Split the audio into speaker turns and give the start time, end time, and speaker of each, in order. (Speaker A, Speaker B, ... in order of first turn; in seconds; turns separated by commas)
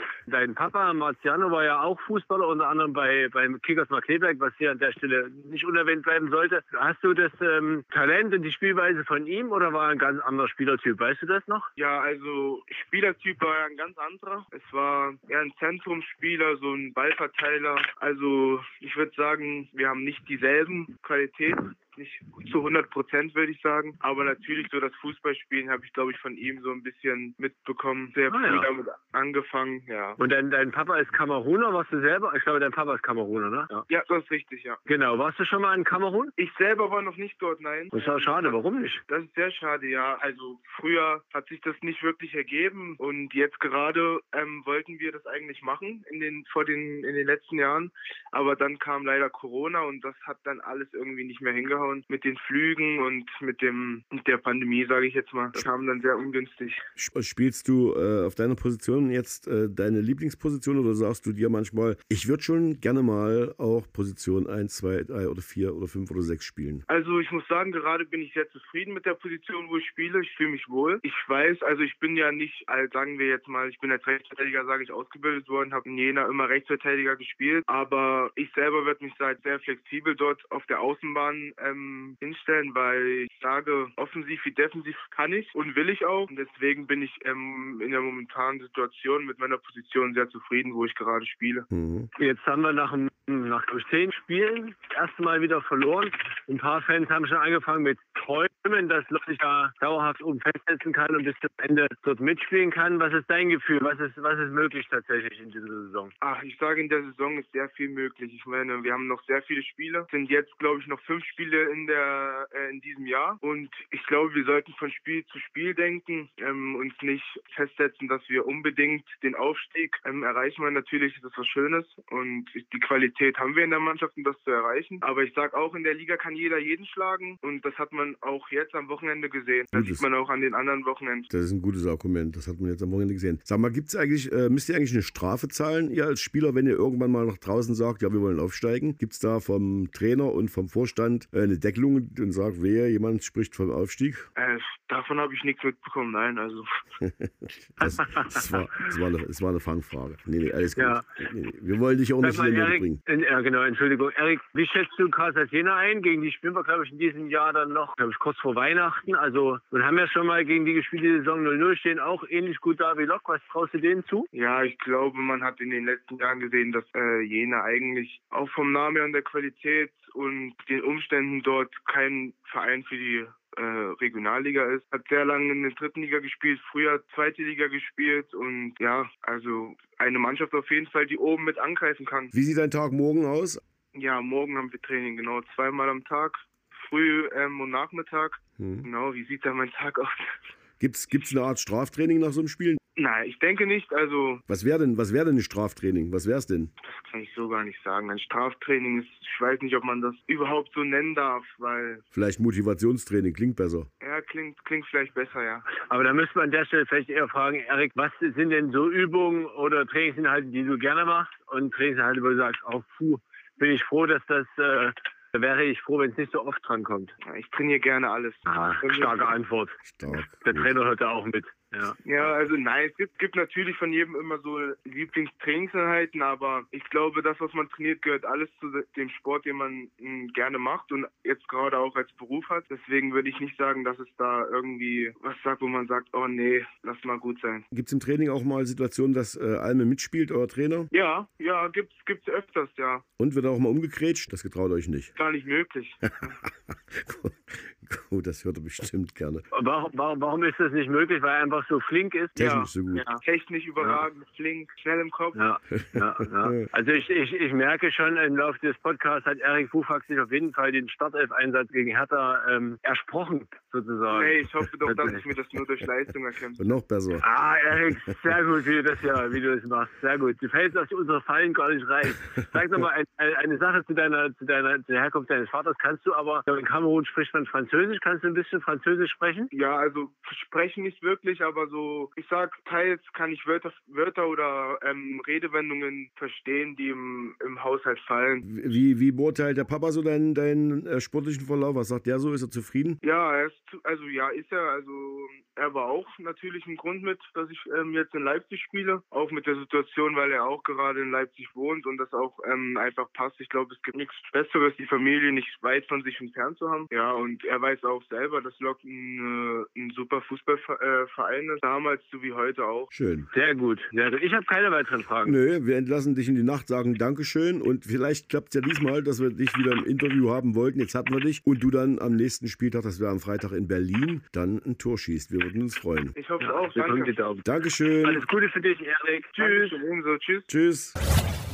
Speaker A: 0.3-11.7, Speaker B: 11.8-30.2, Speaker A: 28.3-28.7, Speaker A: 30.2-33.9, Speaker B: 33.9-34.8, Speaker A: 34.9-36.3, Speaker B: 36.4-56.8, Speaker A: 37.9-39.0, Speaker C: 57.0-66.8, Speaker B: 66.9-91.7, Speaker C: 91.7-92.1, Speaker A: 92.2-106.1, Speaker B: 106.2-131.3, Speaker C: 129.7-130.0, Speaker C: 131.3-144.3, Speaker B: 144.3-146.7, Speaker C: 147.0-153.0, Speaker A: 147.8-148.4, Speaker A: 150.8-151.1, Speaker A: 152.2-164.3, Speaker B: 164.3-182.3, Speaker C: 182.3-183.6, Speaker B: 183.9-190.3, Speaker C: 188.6-188.9, Speaker C: 190.8-192.8, Speaker B: 193.0-194.4, Speaker C: 194.5-196.7, Speaker B: 196.8-202.0, Speaker C: 202.1-203.9, Speaker B: 204.0-205.7, Speaker A: 205.9-217.1, Speaker B: 217.2-219.3, Speaker A: 218.4-219.8, Speaker C: 219.8-220.7, Speaker A: 220.4-222.0, Speaker B: 222.0-237.6, Speaker C: 237.7-240.9, Speaker B: 240.9-243.0, Speaker C: 243.2-245.1, Speaker B: 245.2-246.3, Speaker C: 246.4-249.4, Speaker A: 249.5-252.3, Speaker C: 252.3-253.1, Speaker B: 252.4-255.4, Speaker A: 255.3-265.2, Speaker C: 255.7-256.6, Speaker B: 264.1-266.8, Speaker C: 266.6-267.2, Speaker A: 267.2-279.5, Speaker B: 279.5-288.4, Speaker C: 288.4-293.0, Speaker B: 293.0-312.9, Speaker C: 312.9-313.3, Speaker A: 313.3-315.4, Speaker C: 315.2-326.1, Speaker B: 326.1-327.2, Speaker A: 326.4-327.4, Speaker C: 327.4-328.2, Speaker A: 328.0-329.8, Speaker B: 329.4-330.5, Speaker C: 330.5-330.9